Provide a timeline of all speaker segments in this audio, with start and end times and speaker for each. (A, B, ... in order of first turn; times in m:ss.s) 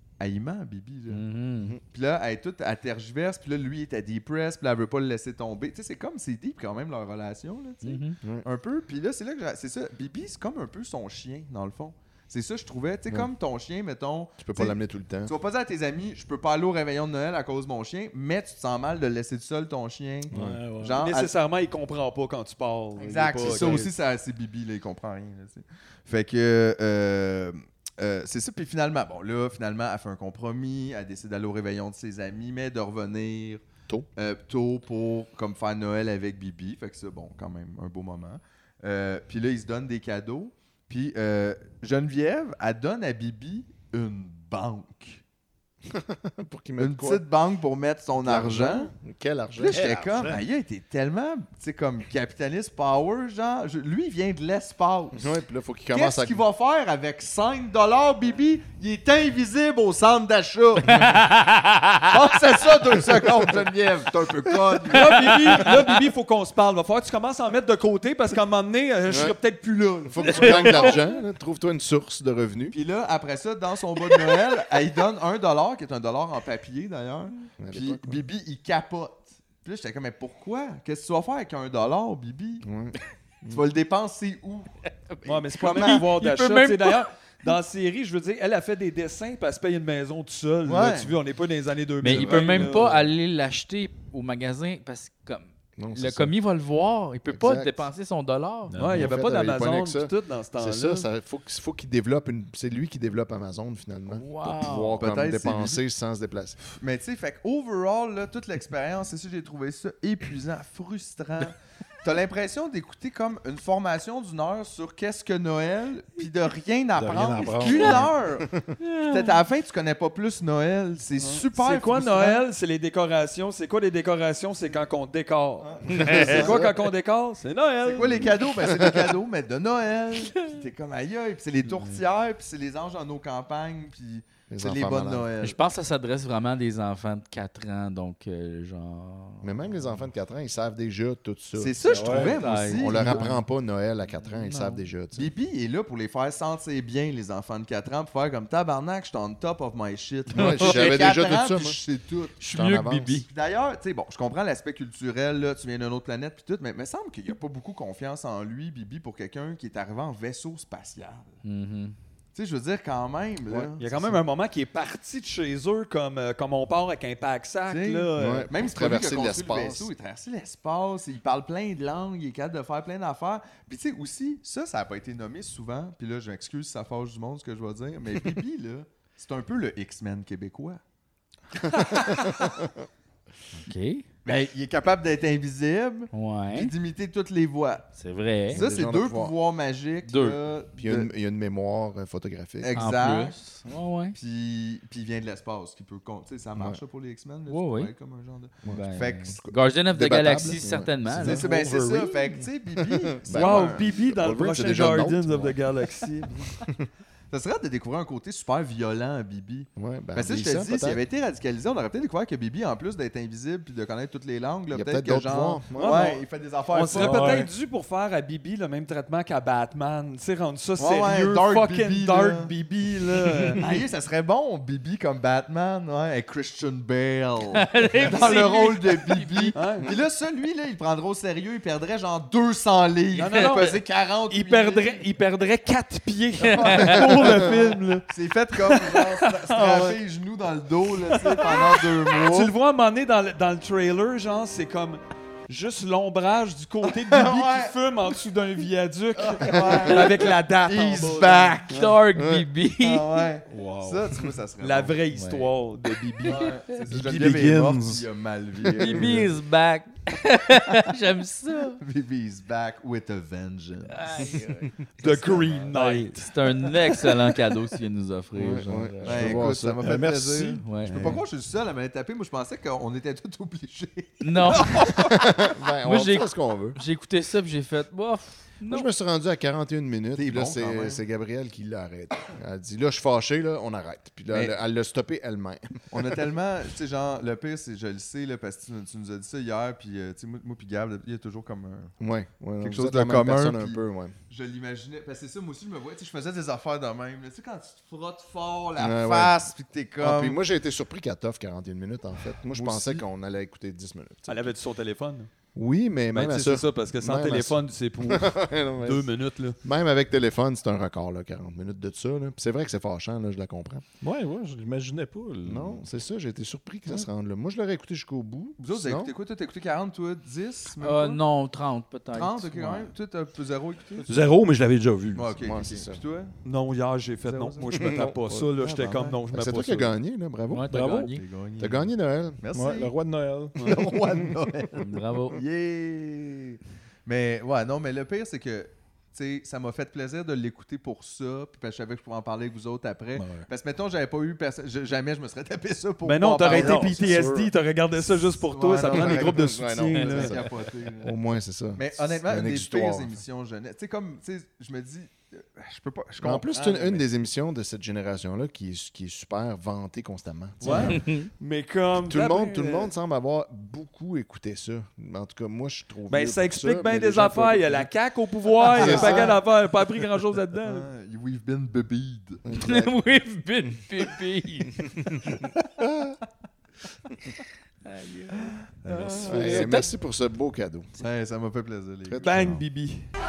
0:00.2-0:01.2 A
0:01.1-0:01.8 B
0:01.9-0:21.3 A
0:07.8-0:08.2 B
0:14.4-0:15.3 C
0:20.3-0:20.6 C
0:20.3-0:21.0 D
0:21.0-0:23.9 E
0:23.0-0:33.6 A
0:34.2-0:45.2 A
0:45.9-0:47.2 C
0:46.8-0:48.9 A
0:48.2-0:50.3 C
0:49.6-0:55.3 A
0:49.7-0:50.4 D
0:55.2-0:56.4 C
0:55.9-1:01.0 A
1:00.9-1:02.0 B
1:02.1-1:05.7 A
1:04.9-1:11.0 E
1:09.1-1:09.4 C
1:10.1-1:12.8 C
1:10.4-1:10.8 B
1:12.7-1:22.6 A
1:17.6-1:18.2 C
1:22.6-1:23.6 C
1:23.5-1:24.7 A
1:25.1-1:27.0 B
1:25.2-1:33.0 E
1:25.6-1:26.0 A
1:30.7-1:31.1 A
1:32.0-1:38.7 B
1:35.8-1:36.3 C
1:37.3-1:37.8 C
1:38.7-1:39.1 D
1:38.8-1:41.1 E
1:39.0-1:46.6 C
1:44.1-1:45.1 B
1:45.0-1:45.8 A
1:46.7-1:58.4 A
1:57.0-1:58.1 D
1:57.7-1:58.0 B
1:58.8-1:59.4 B
1:59.1-2:02.4 A
2:01.2-2:08.3 E
2:05.6-2:06.7 A
2:06.1-2:06.6 C
2:07.8-2:15.6 A
2:14.5-2:15.3 C
2:15.4-2:19.8 B
2:19.4-2:25.3 C
2:21.6-2:23.2 A
2:21.9-2:22.4 D
2:22.1-2:23.4 B
2:24.2-2:24.8 B
2:25.2-2:32.5 A
2:30.3-2:31.8 C
2:30.4-2:31.1 B
2:32.4-2:33.3 B
2:32.4-2:33.2 C
2:33.2-2:41.3 A
2:41.4-2:42.0 B
2:42.4-2:44.1 A
2:43.8-2:48.5 E
2:47.7-3:00.8 A
2:48.2-2:49.9 C
3:01.8-3:02.7 C
3:03.6-3:04.0 B
3:04.2-3:07.9 A
3:06.1-3:06.7 B
3:08.0-3:08.6 B
3:08.5-3:09.3 C
3:08.5-3:11.1 A
3:10.1-3:10.4 B
3:10.8-3:12.7 C
3:12.6-3:13.4 A
3:12.8-3:14.2 B
3:14.2-3:19.4 A
3:17.5-3:17.9 B
3:18.6-3:21.6 C
3:18.7-3:21.4 B
3:21.2-3:23.8 A
3:21.3-3:22.1 D
3:22.8-3:25.6 C
3:23.3-3:26.5 E
3:27.3-3:37.4 A
3:29.8-3:31.0 C
3:34.7-3:36.0 C
3:35.8-3:36.2 E
3:36.7-3:43.8 E
3:37.0-3:37.5 D
3:40.8-3:42.5 A
3:43.5-3:55.0 A
3:47.5-3:49.6 B
3:49.6-3:49.9 E
3:53.1-3:58.0 E
3:56.5-3:57.0 B
3:56.5-3:57.5 A
3:58.1-4:02.5 A
3:58.6-4:00.0 E
4:01.1-4:11.8 E
4:06.9-4:07.7 A
4:09.2-4:11.8 A
4:11.0-4:13.0 B
4:12.2-4:12.4 C
4:12.8-4:15.0 A
4:13.5-4:14.2 D
4:14.6-4:16.5 E
4:15.1-4:15.5 B
4:16.2-4:19.3 A
4:16.9-4:18.1 D
4:18.8-4:21.8 B
4:21.8-4:24.1 A
4:23.9-4:25.1 B
4:25.0-4:26.3 E
4:25.7-4:29.4 B
4:28.4-4:29.9 C
4:29.1-4:35.0 A
4:29.8-4:31.2 D
4:30.6-4:31.1 B
4:34.2-4:35.0 B
4:35.0-4:36.8 C
4:35.8-4:38.9 B
4:38.6-4:46.0 C
4:40.2-4:41.0 A
4:45.9-4:51.9 A
4:52.0-4:54.1 C
4:52.6-5:00.4 A
4:58.8-4:59.4 C
5:00.0-5:04.5 C
5:02.6-5:03.0 A
5:04.3-5:05.3 E
5:05.6-5:09.1 C
5:06.1-5:09.6 E
5:09.6-5:13.8 C
5:14.0-5:15.8 D
5:15.4-5:19.1 C
5:18.6-5:21.2 A
5:20.8-5:22.9 B
5:22.1-5:24.1 A
5:24.1-5:25.4 D
5:25.2-5:26.3 A
5:25.4-5:26.0 C
5:26.4-5:29.9 E
5:27.3-5:28.0 A
5:27.7-5:28.8 C
5:28.6-5:29.2 A
5:29.3-5:31.0 C
5:30.5-5:31.2 B
5:30.7-5:31.1 D
5:31.1-5:31.9 A
5:31.6-5:32.4 C
5:32.4-5:32.9 A
5:32.5-5:33.9 D
5:33.6-5:47.3 A
5:34.8-5:35.4 B
5:43.2-5:43.5 D
5:46.0-5:50.4 E
5:46.5-5:47.4 D
5:46.9-5:47.2 C
5:48.4-5:51.1 A
5:48.8-5:50.5 C
5:51.0-5:53.2 C
5:51.8-5:57.0 A
5:56.2-6:01.0 C
6:00.6-6:01.0 A
6:00.6-6:02.9 E
6:00.9-6:01.3 B
6:02.0-6:07.9 C
6:06.1-6:10.9 E
6:08.7-6:09.4 C
6:10.6-6:12.4 A
6:12.4-6:12.9 C
6:12.6-6:14.8 B
6:15.8-6:16.1 C
6:17.9-6:18.5 B
6:18.8-6:19.6 A
6:18.9-6:19.4 D
6:19.2-6:20.9 C
6:19.3-6:19.9 B
6:21.0-6:22.3 A
6:22.1-6:22.6 C
6:22.2-6:23.1 E